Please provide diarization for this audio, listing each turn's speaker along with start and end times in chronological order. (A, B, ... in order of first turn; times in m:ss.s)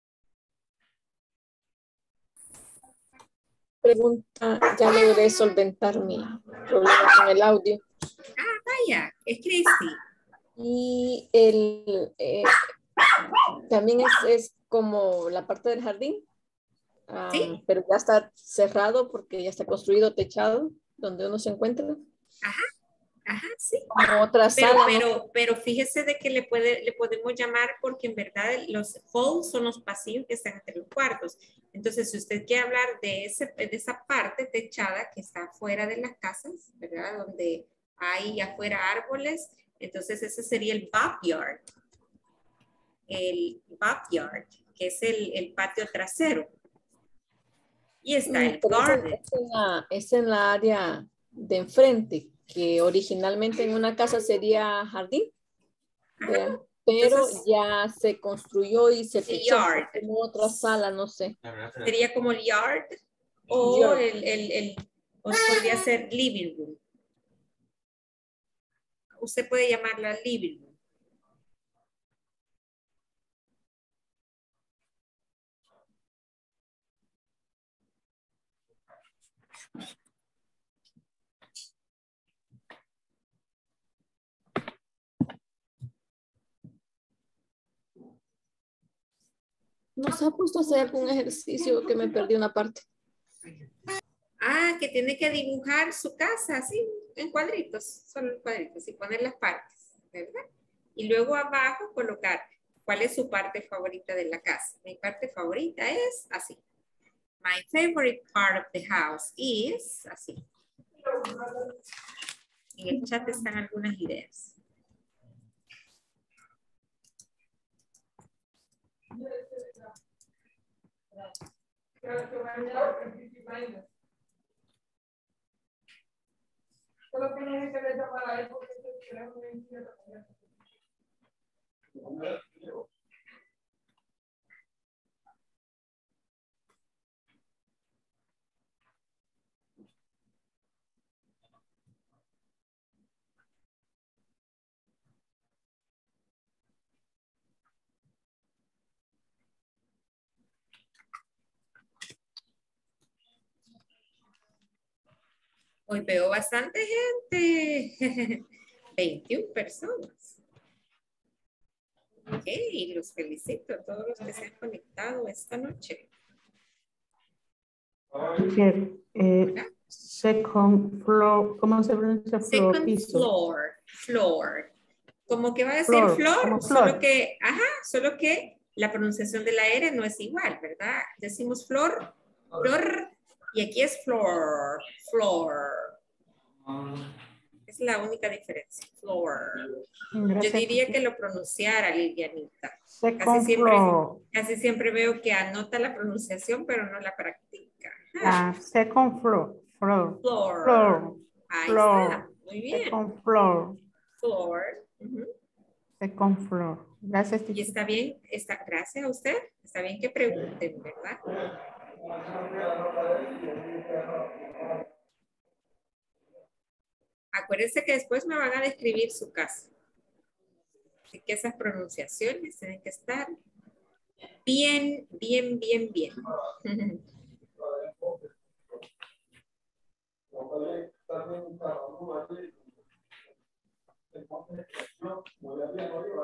0:03.8-0:07.8 A
0:08.4-0:10.0 B
0:10.6-0:12.7 A
0:13.7-0:16.2 A
0:17.1-0:22.0 A
0:17.3-0:17.6 B
0:23.3-0:23.9 B
0:23.9-0:25.1 A
0:24.6-0:41.6 B
0:43.1-0:46.5 B
0:48.0-0:49.2 B
0:48.3-0:55.3 A
0:56.2-0:57.4 B
0:56.2-1:01.4 A
0:59.2-1:00.0 B
1:01.8-1:03.0 B
1:03.5-1:06.8 B
1:03.6-1:04.0 A
1:09.2-1:10.8 B
1:30.0-1:32.8 A
1:34.4-1:40.4 B
1:41.0-1:46.6 B
1:47.4-1:50.4 B
1:52.8-1:54.6 B
2:35.9-2:38.4 B
2:39.0-2:40.4 B
2:42.3-2:46.1 B
2:48.3-2:49.6 C
2:49.4-2:49.7 B
2:50.2-2:53.3 C
2:52.5-2:54.7 B
2:55.3-3:06.0 B
2:55.9-2:57.0 C
3:07.7-3:09.7 B
3:10.1-3:11.0 C
3:10.4-3:18.4 B
3:13.0-3:14.2 C
3:18.2-3:23.8 C
3:20.2-3:23.0 B
3:24.2-3:25.3 B
3:26.0-3:27.8 C
3:27.5-3:31.2 B
3:37.3-3:39.7 B
3:41.1-3:43.3 B
3:44.4-3:47.0 B